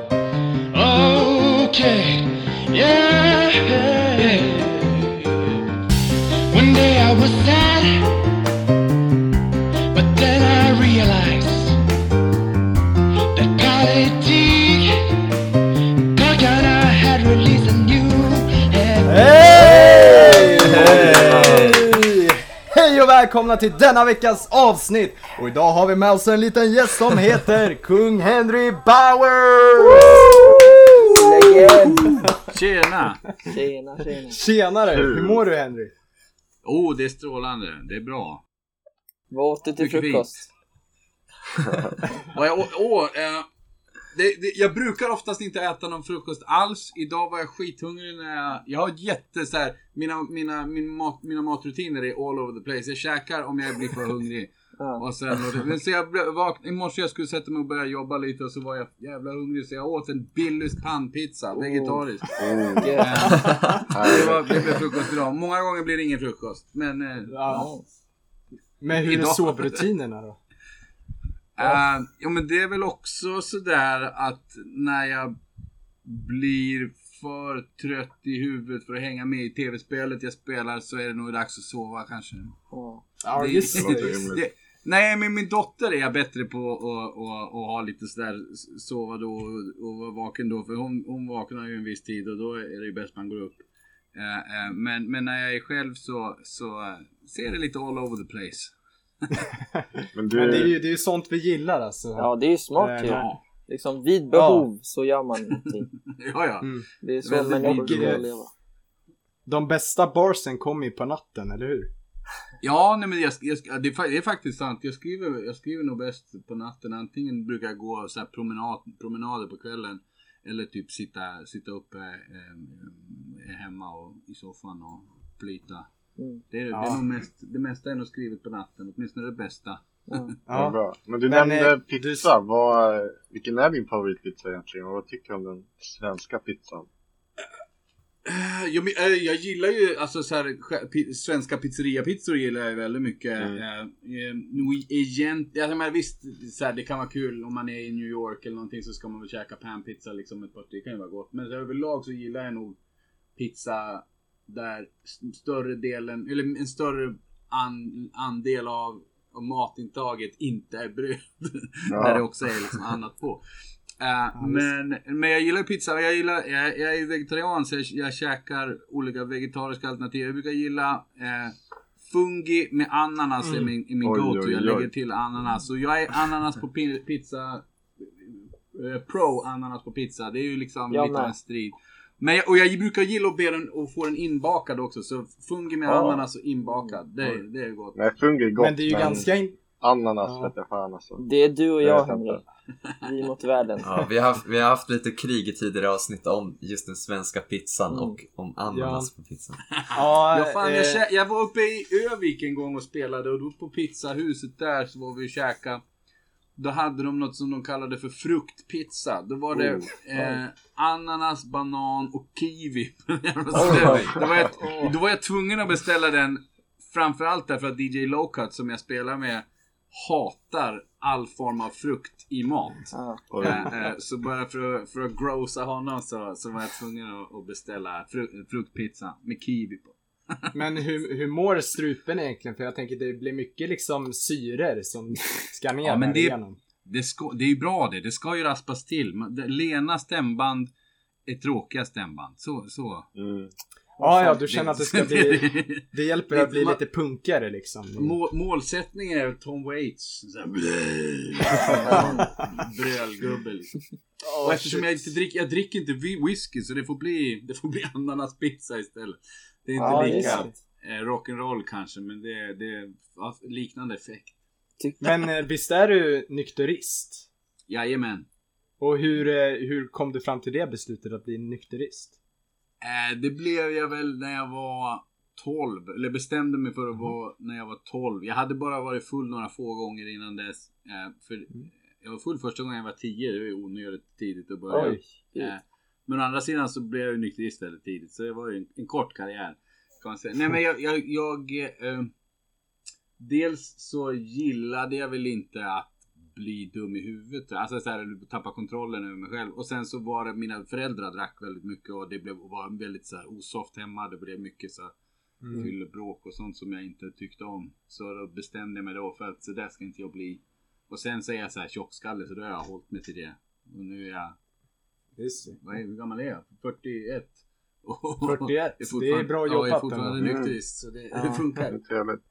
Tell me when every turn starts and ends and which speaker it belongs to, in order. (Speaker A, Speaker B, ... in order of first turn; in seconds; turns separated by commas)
Speaker A: 0.7-5.6, Speaker A: 6.5-8.3, Speaker A: 9.9-11.8, Speaker A: 13.3-15.2, Speaker A: 16.1-20.9, Speaker B: 19.0-30.5, Speaker C: 20.7-21.9, Speaker D: 31.1-32.2, Speaker E: 32.0-33.2, Speaker D: 33.4-34.4, Speaker B: 34.3-35.9, Speaker F: 34.9-35.4, Speaker E: 36.6-38.4, Speaker D: 39.3-40.4, Speaker E: 39.8-40.5, Speaker F: 41.7-41.9, Speaker E: 42.3-43.5, Speaker E: 44.1-62.3, Speaker D: 54.8-55.0, Speaker D: 61.5-62.0, Speaker F: 62.4-63.0, Speaker D: 62.8-63.6, Speaker E: 62.9-67.7, Speaker C: 63.3-63.8, Speaker F: 63.9-64.7, Speaker B: 67.3-67.7, Speaker D: 67.5-67.8, Speaker B: 68.8-70.4, Speaker E: 68.9-69.8, Speaker E: 71.5-75.3, Speaker E: 76.0-82.5, Speaker D: 82.7-83.0, Speaker B: 83.2-84.3, Speaker E: 83.3-93.6, Speaker F: 83.7-84.4, Speaker E: 94.1-98.7, Speaker F: 100.1-100.7, Speaker B: 100.3-103.3, Speaker D: 102.2-105.9, Speaker E: 103.0-103.4, Speaker B: 104.3-104.7, Speaker E: 106.1-108.2, Speaker D: 107.0-108.5, Speaker B: 107.6-108.2, Speaker B: 109.5-111.9, Speaker E: 112.6-125.8, Speaker E: 126.5-130.3, Speaker B: 126.7-127.0, Speaker B: 130.5-132.3, Speaker F: 130.5-136.9, Speaker E: 138.2-152.8, Speaker E: 153.4-163.4, Speaker F: 161.9-162.2, Speaker E: 164.0-188.0, Speaker B: 164.4-164.7, Speaker F: 174.0-174.9, Speaker D: 180.9-181.3, Speaker F: 185.8-186.2, Speaker F: 187.9-191.2, Speaker B: 188.6-189.6, Speaker B: 190.2-190.5, Speaker D: 191.2-192.4, Speaker F: 191.8-192.4, Speaker D: 193.0-193.9, Speaker C: 193.8-199.6, Speaker D: 197.9-198.2, Speaker B: 198.7-199.1, Speaker E: 199.8-205.8, Speaker B: 199.9-201.0, Speaker E: 206.6-230.5, Speaker F: 209.5-209.9, Speaker D: 213.5-214.2, Speaker B: 214.6-214.9, Speaker D: 222.9-223.2, Speaker F: 223.3-223.7, Speaker B: 230.5-236.6, Speaker E: 235.8-240.7, Speaker E: 241.3-243.1, Speaker F: 243.1-243.5, Speaker B: 244.0-248.1, Speaker E: 244.2-246.8, Speaker E: 248.0-253.8, Speaker D: 251.8-252.3, Speaker B: 254.2-255.1, Speaker E: 254.4-264.4, Speaker D: 259.8-260.5, Speaker B: 259.8-260.5, Speaker D: 264.8-265.2, Speaker B: 265.0-267.3, Speaker E: 267.7-268.3, Speaker B: 268.8-272.1, Speaker E: 272.8-292.1, Speaker B: 284.7-285.0, Speaker D: 284.7-285.5, Speaker E: 293.2-304.9, Speaker B: 305.4-305.7, Speaker E: 305.5-314.3, Speaker B: 315.2-315.6, Speaker E: 315.6-321.8, Speaker B: 318.2-320.2, Speaker D: 320.2-320.5, Speaker F: 321.7-322.2